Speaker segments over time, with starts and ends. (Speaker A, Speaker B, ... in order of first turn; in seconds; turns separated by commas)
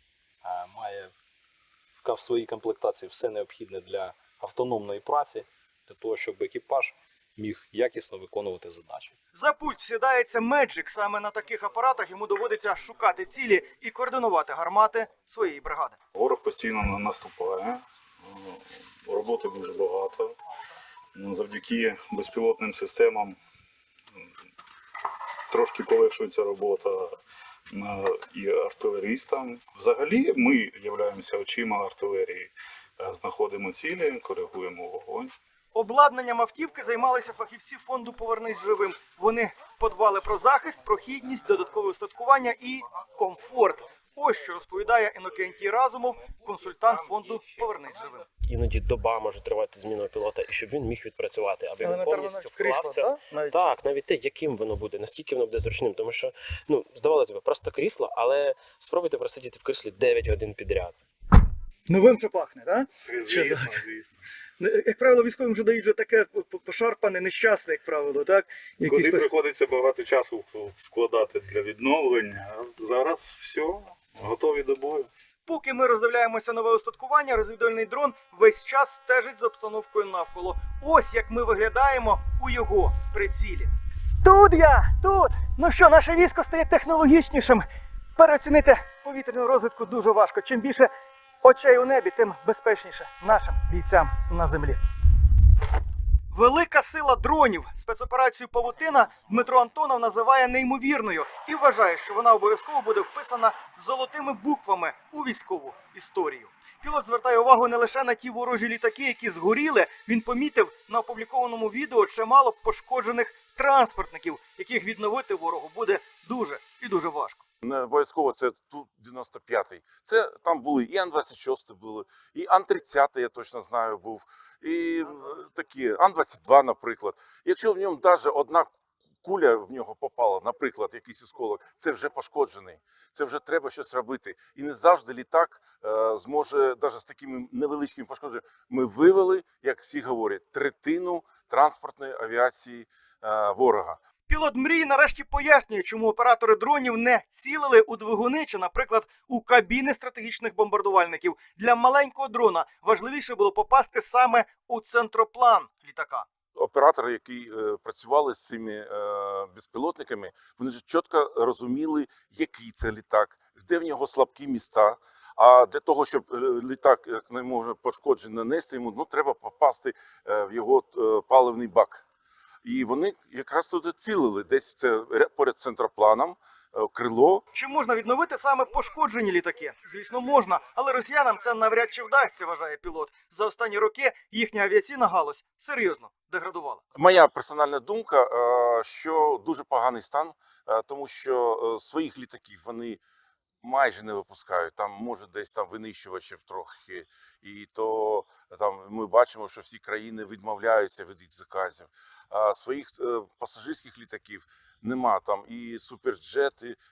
Speaker A: 0.4-1.1, Speaker A: 2.0-9.1, Speaker B: 9.3-16.0, Speaker C: 16.1-20.3, Speaker C: 21.1-23.4, Speaker C: 25.5-27.2, Speaker C: 27.7-35.3, Speaker B: 35.7-48.3, Speaker D: 48.5-61.0, Speaker B: 51.8-53.7, Speaker B: 61.9-63.8, Speaker C: 63.0-64.2, Speaker B: 64.6-69.3, Speaker C: 68.8-75.1, Speaker B: 75.5-83.7, Speaker B: 84.2-90.9, Speaker B: 91.4-94.8, Speaker B: 96.3-117.4, Speaker E: 117.6-144.0, Speaker B: 144.3-156.3, Speaker E: 156.6-172.0, Speaker E: 172.6-177.4, Speaker B: 177.5-186.8, Speaker E: 186.9-193.0, Speaker E: 193.6-206.8